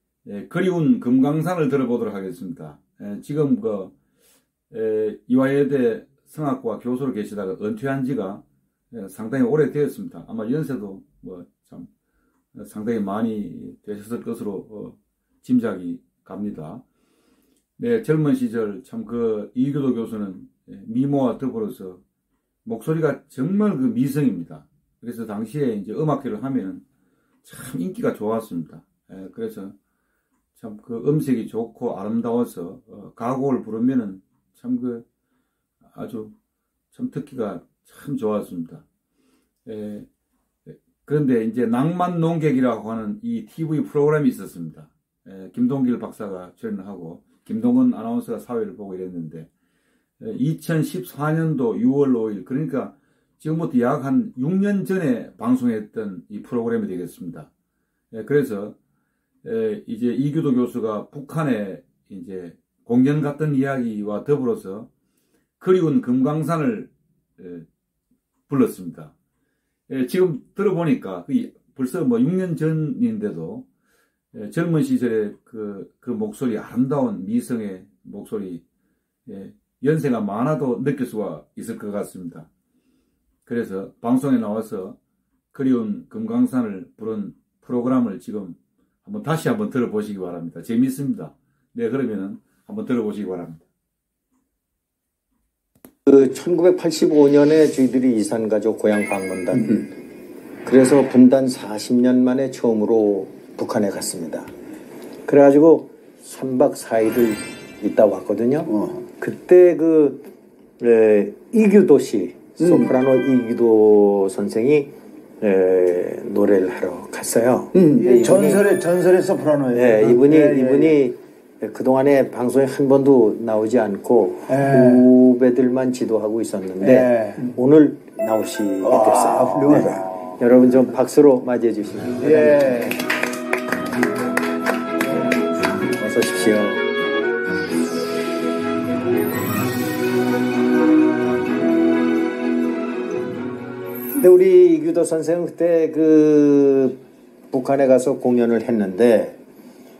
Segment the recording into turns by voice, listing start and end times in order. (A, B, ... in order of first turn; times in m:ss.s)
0:00.2-0:03.9 A
0:04.7-0:11.9 A
0:12.5-0:16.8 A
0:17.8-0:22.0 A
0:22.6-0:26.8 A
0:27.4-0:29.7 A
0:30.5-0:35.0 A
0:35.9-0:36.3 A
0:36.9-0:38.8 A
0:39.6-0:40.1 A
0:41.0-0:49.5 A
0:50.2-0:57.5 A
0:58.1-0:58.7 A
0:59.4-1:04.9 A
1:05.6-1:07.6 A
1:08.5-1:09.1 A
1:09.9-1:13.6 A
1:14.3-1:18.6 A
1:19.3-1:22.5 A
1:23.4-1:25.0 A
1:25.5-1:33.6 A
1:36.0-1:39.9 B
1:40.6-1:44.5 B
1:45.3-1:50.3 B
1:50.8-1:54.9 B
1:52.6-1:52.9 C
1:55.4-1:58.6 B
1:57.7-2:00.9 C
1:59.7-2:12.7 B
2:04.5-2:05.0 C
2:06.8-2:07.5 C
2:08.8-2:10.2 C
2:12.2-2:13.0 C
2:15.8-2:16.8 B
2:24.2-2:27.0 B
2:27.5-2:29.4 B